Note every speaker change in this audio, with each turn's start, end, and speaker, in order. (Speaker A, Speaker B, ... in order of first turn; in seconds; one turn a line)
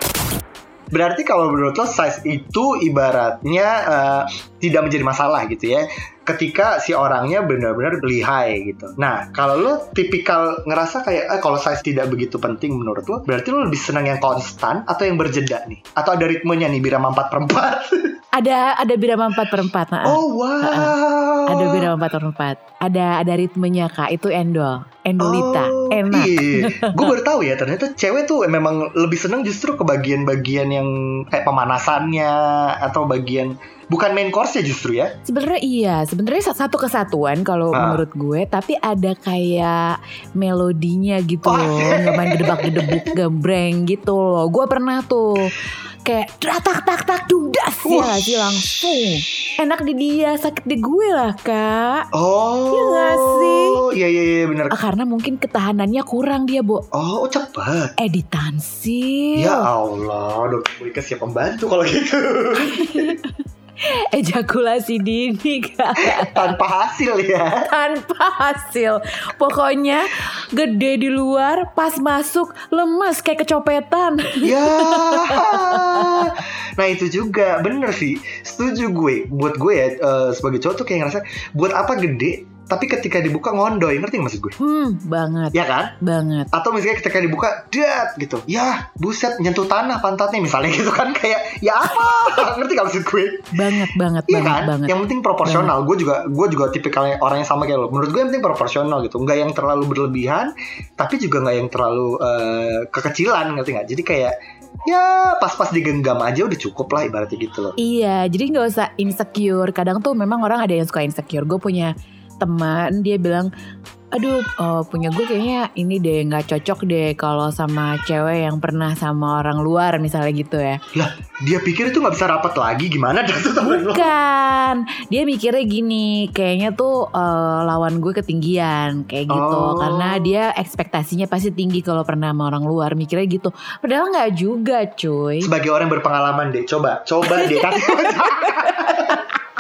Speaker A: 0.9-18.2
Speaker B: 18.4-20.9
Speaker A: 20.1-21.9
Speaker B: 21.5-27.1
Speaker A: 25.2-35.1
Speaker B: 35.3-52.1
Speaker A: 37.7-38.0
Speaker A: 41.5-43.1
Speaker A: 47.9-48.7
Speaker A: 52.1-54.8
Speaker B: 52.7-53.8
Speaker B: 54.7-56.9
Speaker A: 56.9-57.9
Speaker B: 58.0-59.7
Speaker A: 59.4-63.2
Speaker B: 62.6-66.4
Speaker A: 66.0-67.7
Speaker B: 67.7-76.3
Speaker A: 74.4-84.6
Speaker B: 84.6-86.5
Speaker A: 85.5-85.9
Speaker A: 86.5-93.7
Speaker B: 93.5-95.7
Speaker A: 94.3-104.3
Speaker A: 104.9-107.8
Speaker B: 107.8-113.5
Speaker B: 114.1-120.8
Speaker A: 120.9-124.1
Speaker B: 123.6-135.5
Speaker A: 129.3-130.3
Speaker A: 135.4-139.2
Speaker B: 137.4-139.2